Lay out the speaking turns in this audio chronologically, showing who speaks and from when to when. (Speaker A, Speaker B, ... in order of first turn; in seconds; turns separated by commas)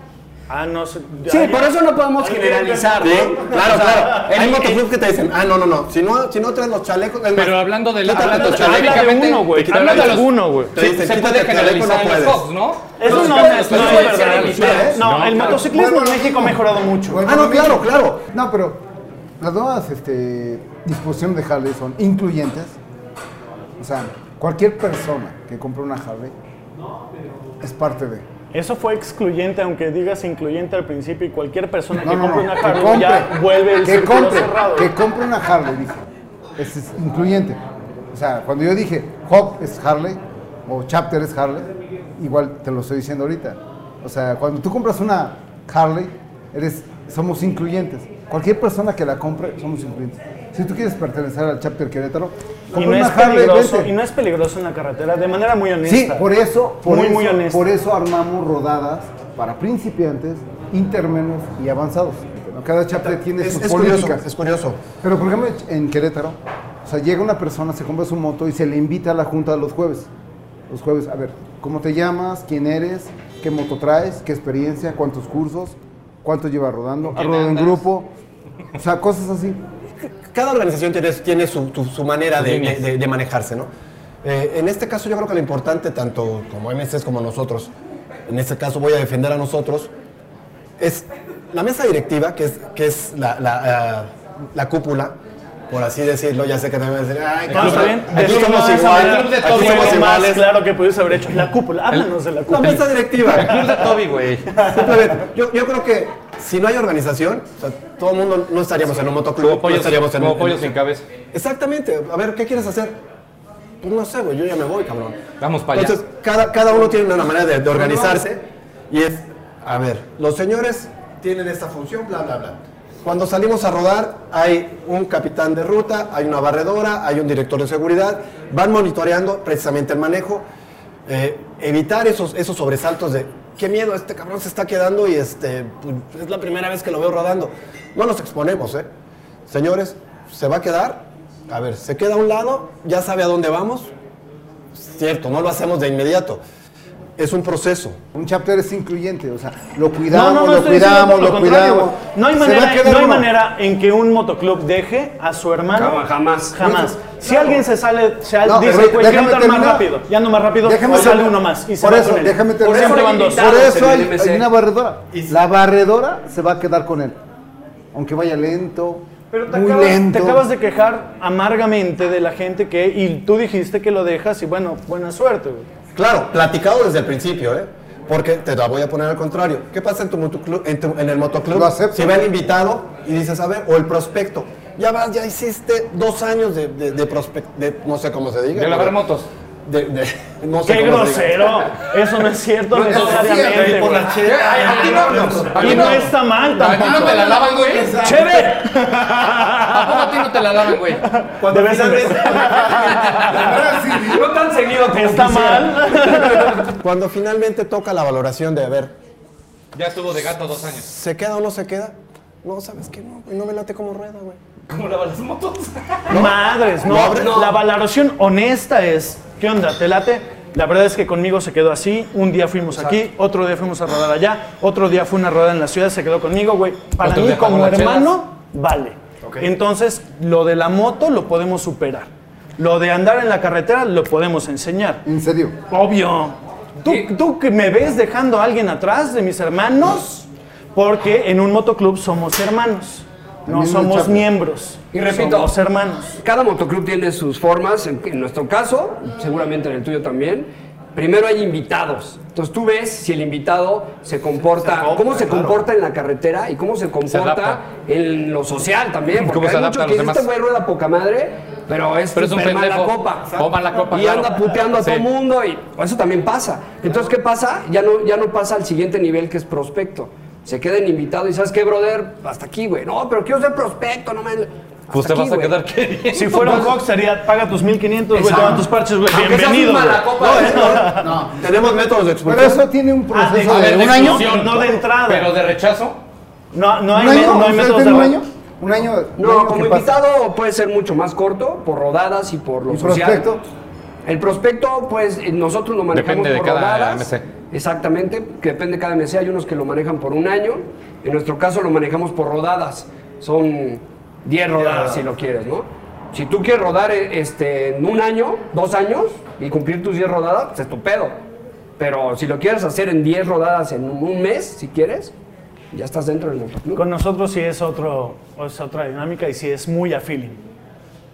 Speaker A: 0.5-4.5, Speaker B: 1.3-4.8, Speaker C: 3.0-12.4, Speaker D: 7.3-15.6, Speaker A: 8.0-10.8, Speaker A: 13.0-17.2, Speaker B: 13.0-15.4, Speaker C: 13.1-15.0, Speaker E: 15.6-18.8, Speaker C: 17.2-18.2, Speaker E: 19.4-22.8, Speaker E: 23.8-26.3, Speaker E: 27.6-28.2, Speaker A: 28.5-34.9, Speaker E: 32.0-37.6, Speaker E: 38.1-53.9, Speaker A: 52.7-56.2, Speaker E: 55.8-64.2, Speaker A: 56.8-57.7, Speaker C: 63.3-64.8, Speaker E: 65.0-70.1, Speaker E: 70.7-78.1, Speaker D: 77.1-77.8, Speaker E: 78.7-79.6, Speaker C: 80.0-83.7, Speaker D: 82.4-82.9, Speaker C: 84.2-87.7, Speaker C: 88.3-89.9, Speaker C: 90.8-95.2, Speaker C: 95.7-100.5, Speaker A: 97.5-103.0, Speaker D: 97.5-100.1, Speaker D: 101.9-104.5, Speaker C: 102.5-103.9, Speaker A: 104.6-104.9, Speaker C: 104.6-110.8, Speaker D: 109.3-111.0, Speaker C: 111.3-113.0, Speaker C: 113.8-130.4, Speaker D: 115.4-116.0, Speaker C: 131.1-138.9, Speaker C: 139.5-143.9, Speaker C: 144.7-146.4, Speaker C: 147.2-148.0, Speaker E: 148.1-153.3, Speaker A: 150.1-163.5, Speaker B: 155.7-156.9, Speaker E: 158.4-159.9, Speaker E: 160.6-167.2, Speaker B: 162.6-164.5, Speaker E: 167.9-170.4, Speaker A: 169.3-175.7, Speaker C: 175.9-189.0, Speaker E: 181.5-182.3, Speaker D: 188.5-189.3, Speaker C: 189.7-191.8, Speaker A: 190.6-194.1, Speaker E: 192.7-195.8, Speaker D: 192.8-198.1, Speaker C: 193.9-195.4, Speaker B: 194.6-195.6, Speaker A: 195.5-203.6, Speaker E: 197.1-198.5, Speaker D: 199.2-201.0, Speaker C: 201.4-202.4, Speaker D: 202.3-203.3, Speaker E: 203.1-204.3, Speaker B: 203.9-206.7, Speaker A: 204.8-206.7, Speaker C: 206.7-208.9, Speaker D: 209.7-210.9, Speaker C: 210.5-214.4, Speaker D: 214.7-216.2, Speaker C: 216.1-217.4, Speaker A: 216.1-235.0, Speaker B: 217.0-217.6, Speaker B: 222.8-223.0, Speaker D: 227.0-228.1, Speaker E: 235.0-235.6, Speaker A: 235.7-246.2, Speaker E: 243.4-244.3, Speaker B: 244.9-245.6, Speaker B: 246.2-275.6, Speaker C: 254.8-255.5, Speaker D: 257.1-257.6, Speaker D: 259.1-260.3, Speaker D: 262.1-265.0, Speaker D: 274.9-276.7, Speaker A: 276.1-281.1, Speaker B: 278.1-278.6, Speaker D: 279.1-280.6, Speaker B: 279.2-280.4, Speaker C: 280.1-282.6, Speaker E: 280.9-281.7, Speaker E: 282.2-284.6, Speaker A: 283.1-285.3, Speaker D: 283.4-286.0, Speaker A: 286.5-288.2, Speaker E: 286.9-290.0, Speaker B: 289.2-293.4, Speaker E: 292.7-293.4, Speaker B: 294.0-311.1, Speaker D: 295.9-297.2, Speaker A: 304.6-305.0, Speaker B: 311.8-315.1, Speaker B: 315.7-316.8, Speaker A: 316.7-320.4